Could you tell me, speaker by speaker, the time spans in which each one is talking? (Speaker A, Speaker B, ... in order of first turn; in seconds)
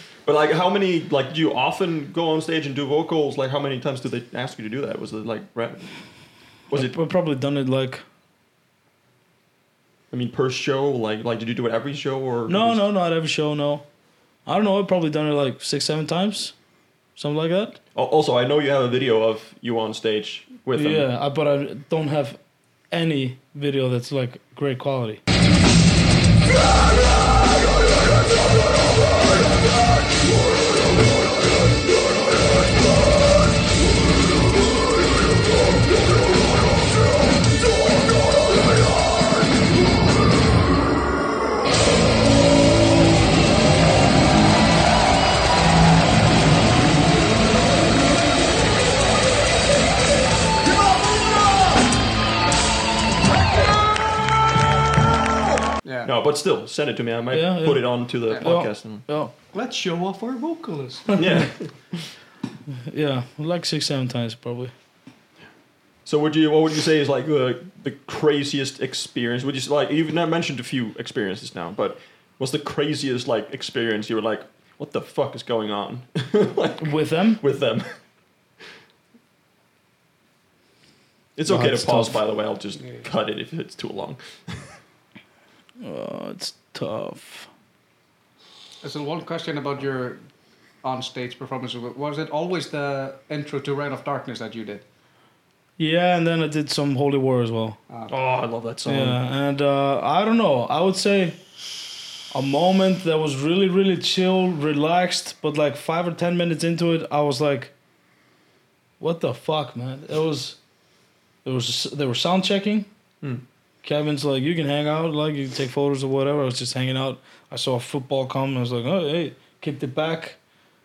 Speaker A: 0.2-5.9, 6.7-7.0, 10.1-12.8, 17.9-21.1, 56.0-59.0, 61.2-62.0, 66.0-77.9, 81.3-84.7, 98.1-99.2
Speaker B: 6.7-8.0, 12.5-13.8, 14.4-16.5, 17.2-17.8, 20.7-22.4, 22.9-25.2, 57.3-59.3, 61.1-61.5, 62.8-64.7, 76.8-77.4, 81.5-82.2, 85.8-87.5, 95.8-97.8, 98.8-101.4, 102.3-107.7, 109.0-110.6, 111.4-112.9, 113.8-120.4
Speaker C: 55.8-56.1, 59.5-61.2, 88.8-90.2, 90.8-94.8